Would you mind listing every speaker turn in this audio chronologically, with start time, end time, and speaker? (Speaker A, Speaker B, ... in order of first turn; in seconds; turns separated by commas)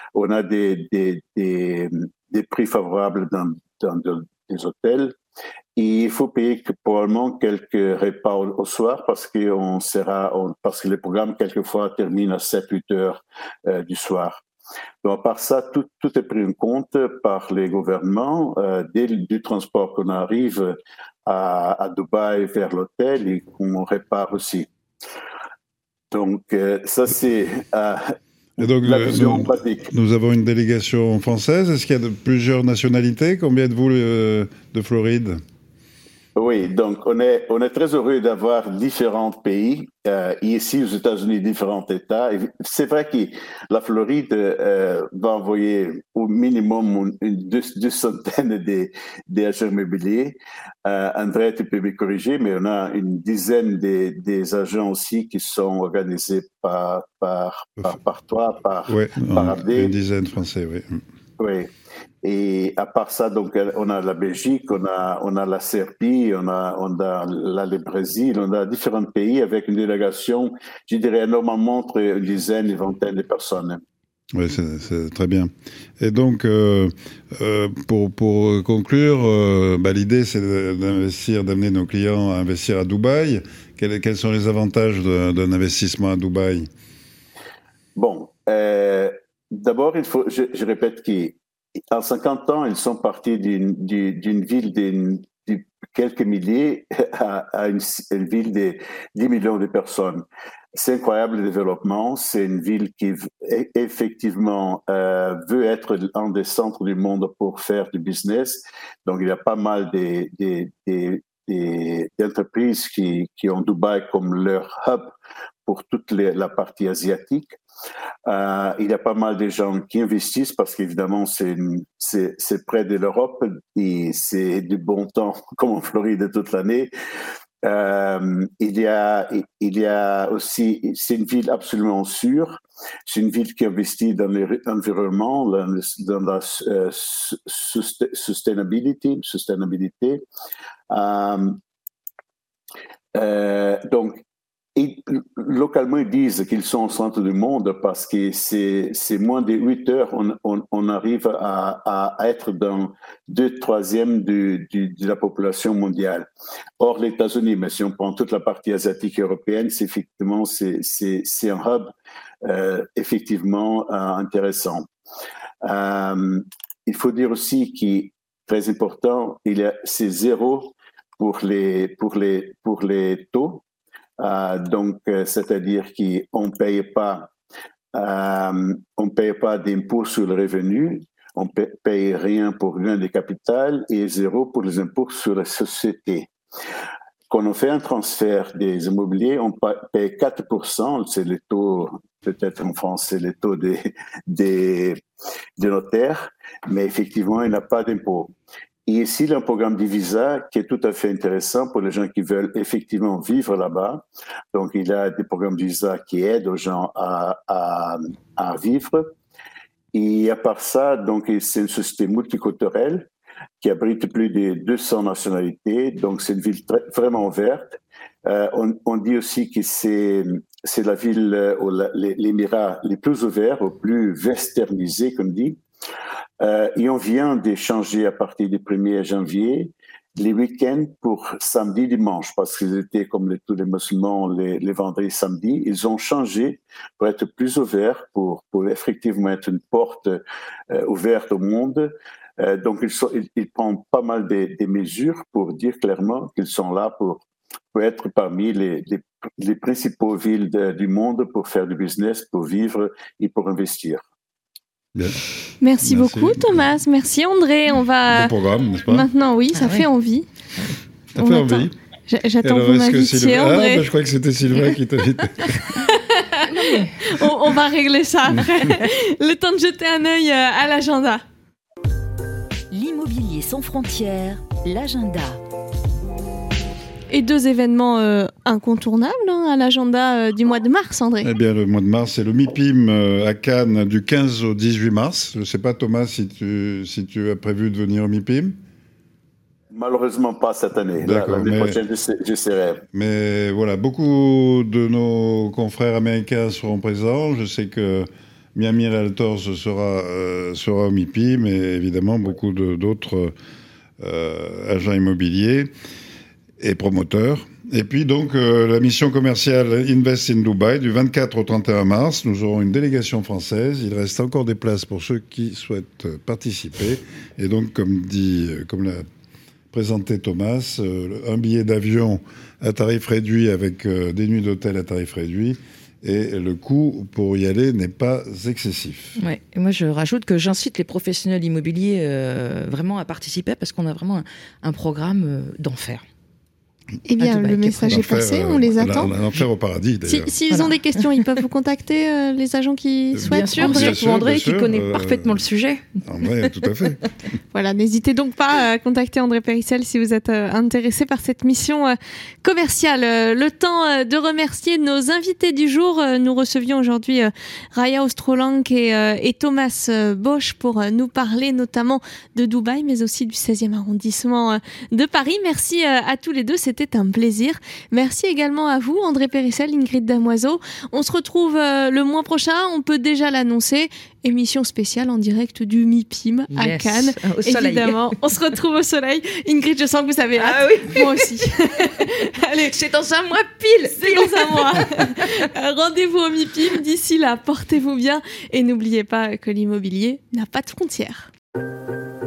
Speaker A: 0.1-5.2, Speaker A: 5.8-14.4, Speaker A: 15.0-24.7, Speaker A: 26.1-29.9, Speaker B: 28.6-35.4, Speaker A: 36.4-59.9, Speaker B: 58.9-61.0, Speaker A: 61.4-61.7, Speaker A: 62.2-73.8, Speaker B: 74.3-86.7, Speaker A: 88.0-91.4, Speaker A: 91.9-115.1, Speaker A: 115.7-117.6, Speaker A: 118.3-126.9, Speaker A: 127.6-140.2, Speaker A: 140.9-141.6, Speaker A: 143.2-144.2, Speaker A: 144.8-161.9, Speaker A: 162.4-164.9, Speaker A: 165.6-173.6, Speaker A: 174.2-177.3, Speaker A: 177.9-186.3, Speaker A: 187.3-195.0, Speaker A: 195.6-198.3, Speaker A: 198.9-209.1, Speaker A: 209.9-213.1, Speaker A: 213.6-225.6, Speaker A: 226.4-254.0, Speaker B: 254.9-255.2, Speaker C: 255.6-258.3, Speaker B: 255.8-256.6, Speaker B: 258.1-259.1, Speaker C: 258.9-260.3, Speaker D: 259.6-259.9, Speaker B: 261.1-261.7, Speaker C: 261.2-263.9, Speaker B: 262.4-265.8, Speaker C: 265.8-271.2, Speaker D: 266.5-267.2, Speaker B: 268.3-268.8, Speaker E: 272.7-275.4, Speaker C: 277.1-281.3, Speaker B: 281.2-288.6, Speaker A: 289.7-292.8, Speaker B: 291.0-291.8, Speaker B: 292.9-303.3, Speaker B: 304.0-305.7, Speaker B: 306.6-319.1, Speaker B: 319.7-329.2, Speaker D: 329.2-336.0, Speaker C: 337.1-339.1, Speaker D: 337.2-338.1, Speaker B: 337.9-340.3, Speaker C: 340.1-344.0, Speaker D: 340.5-341.4, Speaker B: 343.1-345.4, Speaker D: 343.2-346.6, Speaker B: 346.0-347.1, Speaker C: 347.5-382.8, Speaker D: 376.5-378.2, Speaker D: 380.4-385.5, Speaker C: 383.9-391.3